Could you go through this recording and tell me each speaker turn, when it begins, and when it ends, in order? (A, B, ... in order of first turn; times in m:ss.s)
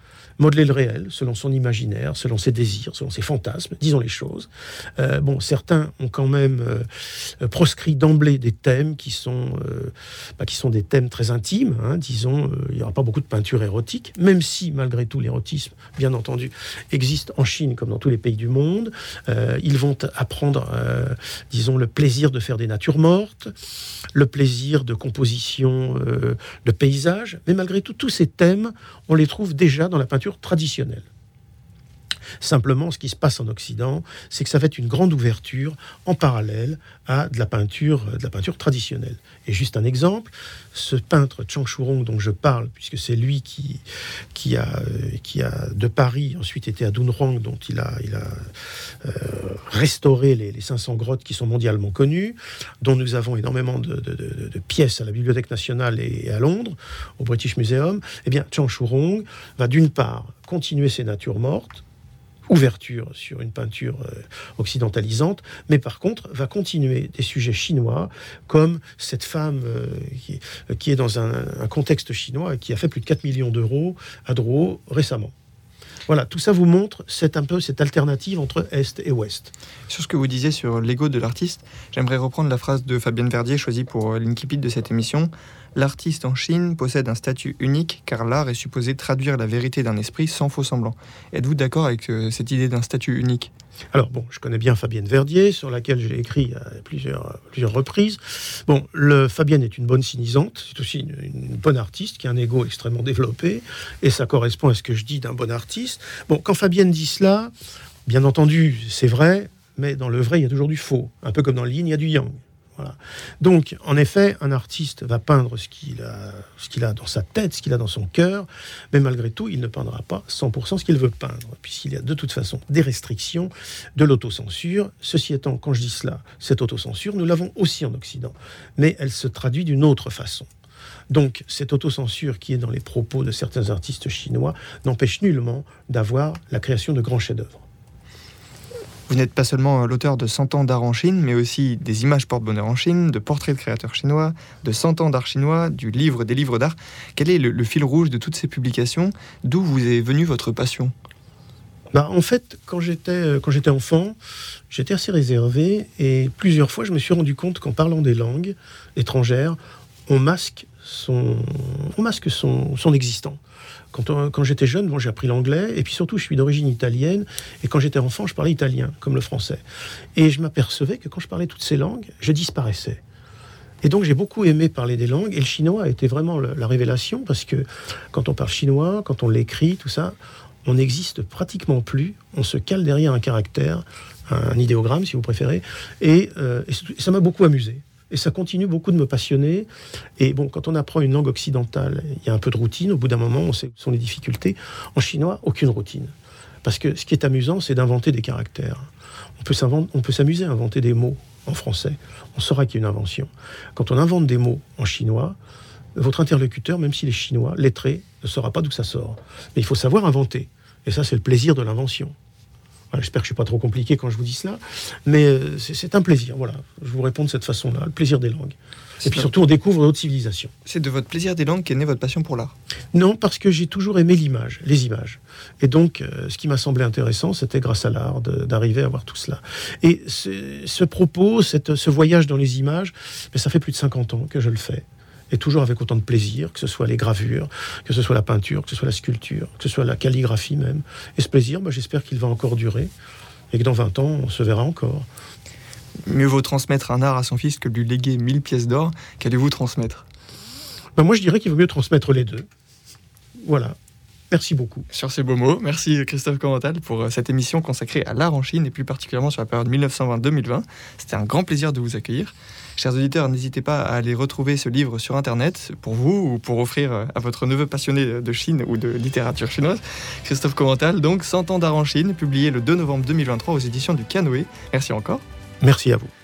0:00.4-0:23.5 A
0:24.1-0:31.1 A
0:32.4-0:48.5 A
0:49.0-1:01.8 A
1:02.5-1:15.3 A
1:16.1-1:19.5 A
1:19.9-1:33.5 B
1:33.9-1:47.5 A
1:48.0-2:10.5 A
2:11.1-2:17.6 A
2:19.1-2:30.9 B
2:31.9-2:34.2 A
2:34.7-2:43.4 A
2:43.9-2:49.6 A
2:50.2-2:53.0 A
2:53.8-3:25.4 A
3:25.9-3:32.1 A
3:32.9-3:40.5 A
3:39.0-3:39.3 B
3:40.6-3:42.5 B
3:42.9-4:02.9 A
4:03.5-4:05.1 A
4:06.0-4:10.0 B
4:11.0-4:12.5 A
4:13.4-4:13.8 A
4:14.3-4:14.9 A
4:14.9-4:35.2 B
4:35.6-4:36.1 A